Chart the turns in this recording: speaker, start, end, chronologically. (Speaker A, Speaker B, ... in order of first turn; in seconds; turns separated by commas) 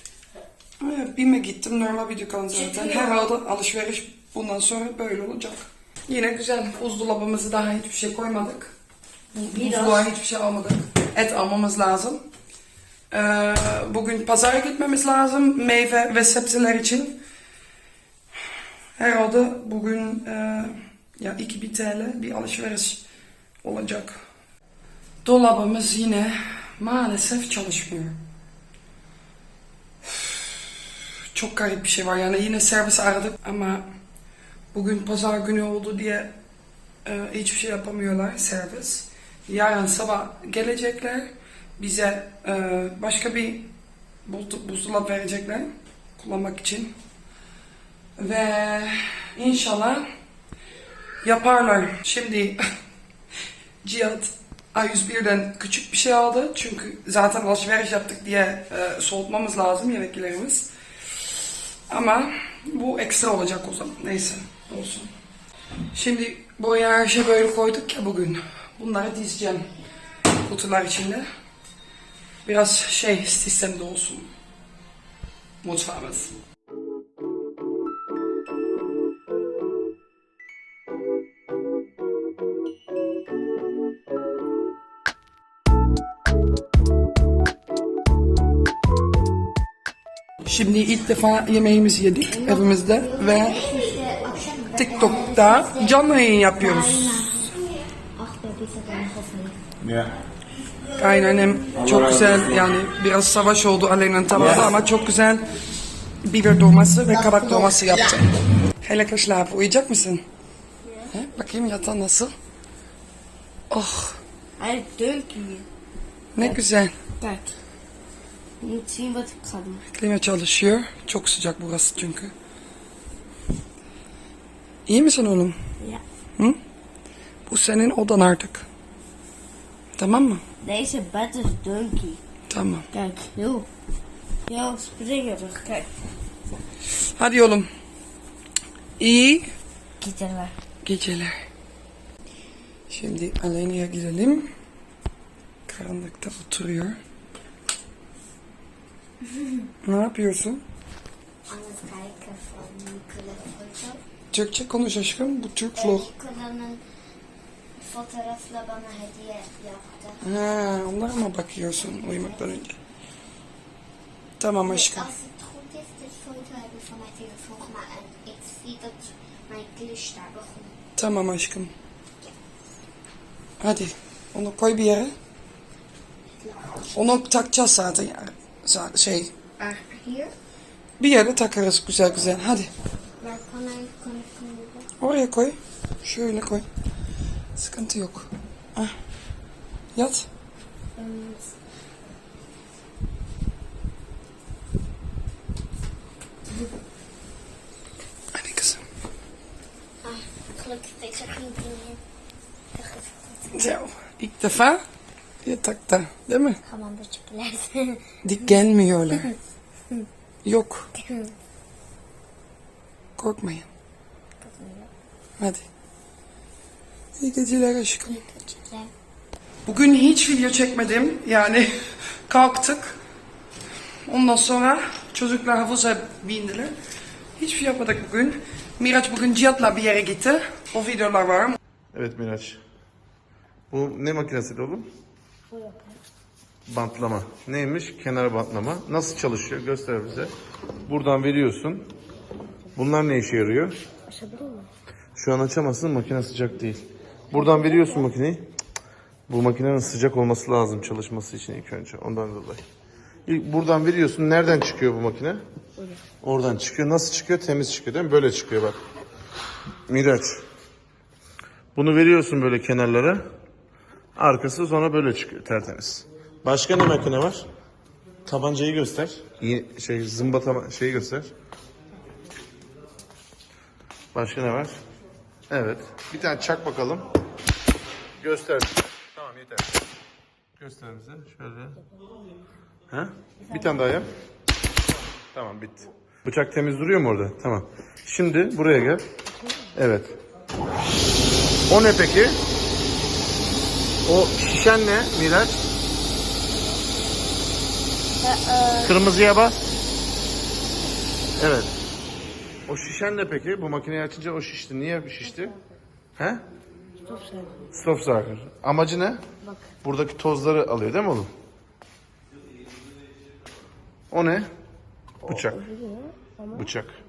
Speaker A: 0.8-8.7, Speaker B: 2.6-3.1, Speaker A: 9.3-12.2, Speaker B: 9.5-10.0, Speaker A: 13.1-17.2, Speaker A: 19.0-23.0, Speaker A: 23.6-24.2, Speaker A: 25.2-28.2, Speaker A: 30.0-30.4, Speaker A: 31.3-33.9, Speaker A: 34.7-36.3, Speaker A: 37.0-43.7, Speaker A: 44.2-46.9, Speaker A: 48.2-50.0, Speaker A: 51.2-52.6, Speaker A: 53.8-60.7, Speaker A: 61.9-65.1, Speaker A: 65.9-69.7, Speaker A: 70.4-71.2, Speaker A: 72.4-74.3, Speaker A: 75.6-76.3, Speaker A: 90.4-93.7, Speaker C: 92.4-96.0, Speaker A: 94.8-97.3, Speaker C: 96.6-97.6, Speaker C: 98.2-99.6, Speaker D: 99.8-100.1, Speaker A: 100.9-105.4, Speaker A: 106.2-108.2, Speaker C: 107.3-107.9, Speaker A: 108.8-110.2, Speaker A: 111.1-112.3, Speaker A: 113.7-114.2, Speaker B: 114.6-115.7, Speaker A: 116.3-117.0, Speaker B: 117.2-117.5, Speaker B: 118.6-119.8, Speaker A: 119.9-122.3, Speaker A: 124.8-125.5, Speaker A: 127.5-128.7, Speaker A: 130.0-130.4, Speaker B: 130.6-132.2, Speaker A: 132.5-132.9, Speaker B: 132.9-133.7, Speaker B: 134.5-135.9, Speaker A: 137.1-137.7, Speaker A: 139.0-139.5, Speaker B: 140.0-140.5, Speaker A: 140.8-141.3, Speaker A: 142.9-144.5, Speaker A: 145.7-147.0, Speaker A: 149.8-150.6, Speaker C: 151.5-154.0, Speaker A: 154.3-156.1, Speaker C: 155.8-156.8, Speaker C: 157.8-160.2, Speaker A: 160.2-162.8, Speaker A: 164.4-165.1, Speaker C: 164.6-170.8, Speaker A: 171.0-171.7, Speaker A: 173.6-175.1, Speaker C: 176.4-176.8, Speaker A: 176.9-179.3, Speaker C: 179.6-180.3, Speaker A: 181.0-182.7, Speaker C: 183.2-184.9, Speaker A: 185.0-186.7, Speaker A: 187.6-188.9, Speaker A: 189.9-190.3, Speaker C: 190.9-191.5, Speaker A: 198.3-198.8, Speaker C: 200.0-202.0, Speaker C: 202.7-203.7, Speaker A: 203.5-204.8, Speaker A: 205.4-206.6, Speaker C: 206.6-208.2, Speaker A: 208.2-209.3, Speaker A: 210.4-210.9, Speaker C: 210.9-211.3, Speaker A: 213.2-213.7, Speaker C: 214.4-214.9, Speaker A: 215.4-215.6, Speaker A: 217.2-218.2, Speaker C: 218.1-218.9, Speaker A: 219.6-221.7, Speaker A: 222.3-223.0, Speaker A: 224.1-226.7, Speaker A: 227.4-231.6, Speaker D: 231.9-232.6, Speaker D: 233.7-234.9, Speaker D: 236.7-240.3, Speaker D: 240.9-241.9, Speaker D: 242.7-243.8, Speaker C: 244.2-244.7, Speaker D: 245.2-248.4, Speaker D: 249.3-252.6, Speaker D: 253.3-255.4, Speaker D: 256.2-258.8, Speaker D: 259.9-260.4, Speaker D: 261.8-263.2, Speaker D: 264.2-267.4, Speaker D: 268.2-271.3, Speaker D: 274.1-274.8, Speaker D: 275.5-277.1, Speaker D: 278.2-279.7, Speaker D: 280.6-281.8, Speaker D: 282.9-284.1, Speaker D: 285.3-289.0, Speaker D: 289.7-290.1, Speaker D: 291.7-292.4, Speaker D: 294.0-295.6, Speaker D: 298.7-299.6, Speaker D: 301.4-301.7, Speaker D: 302.7-305.6, Speaker D: 306.2-306.4, Speaker B: 307.2-307.5, Speaker D: 307.7-309.2, Speaker D: 309.8-311.3, Speaker D: 314.1-314.5, Speaker D: 315.2-315.7, Speaker D: 316.5-316.9